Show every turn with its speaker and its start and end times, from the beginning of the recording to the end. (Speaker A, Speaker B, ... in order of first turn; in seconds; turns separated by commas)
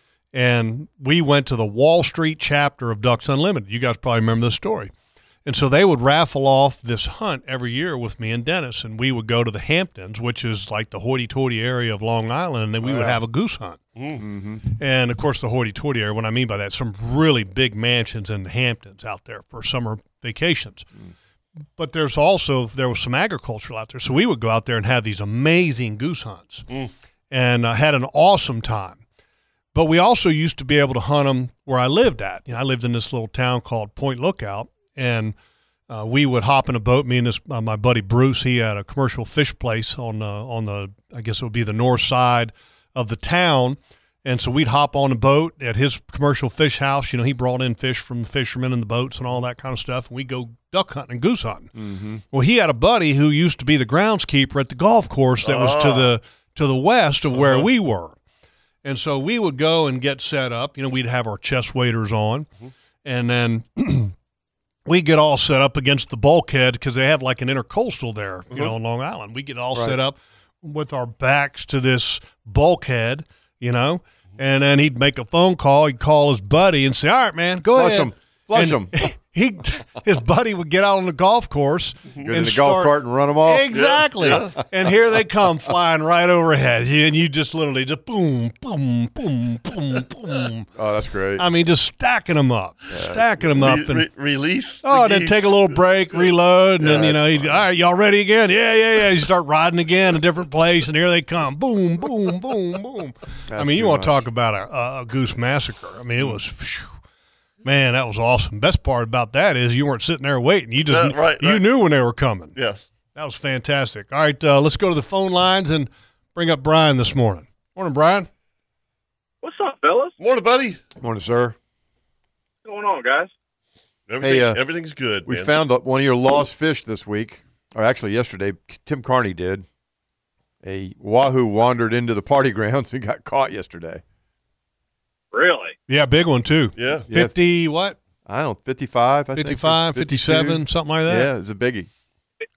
Speaker A: 0.3-4.9, Speaker A: 5.5-13.8, Speaker B: 12.8-13.2, Speaker C: 13.9-14.2, Speaker B: 14.2-14.6, Speaker A: 14.8-20.9, Speaker A: 21.8-26.7, Speaker A: 27.3-29.0, Speaker A: 29.7-35.4, Speaker A: 35.9-51.7, Speaker B: 51.8-52.2, Speaker A: 52.3-58.2, Speaker C: 55.4-56.1, Speaker C: 57.3-57.7, Speaker A: 58.8-62.5, Speaker A: 63.0-64.1, Speaker A: 64.9-90.7, Speaker B: 77.7-79.1, Speaker B: 82.2-83.8, Speaker C: 83.7-84.6, Speaker B: 90.8-91.5, Speaker A: 91.4-94.1, Speaker B: 92.9-93.7, Speaker C: 93.6-97.2, Speaker A: 94.8-106.9, Speaker B: 96.8-97.6, Speaker B: 103.5-104.3, Speaker A: 107.6-112.6, Speaker C: 110.9-111.6, Speaker C: 112.5-112.9, Speaker A: 113.1-118.3, Speaker D: 119.4-120.2, Speaker C: 120.2-120.8, Speaker B: 121.0-121.6, Speaker D: 122.6-123.3, Speaker C: 124.1-125.6, Speaker B: 124.2-124.6, Speaker B: 125.2-129.7, Speaker B: 130.6-134.0, Speaker D: 135.3-135.8, Speaker A: 135.9-138.0, Speaker C: 136.8-137.1, Speaker B: 137.1-137.3, Speaker B: 138.3-141.9, Speaker A: 139.3-141.3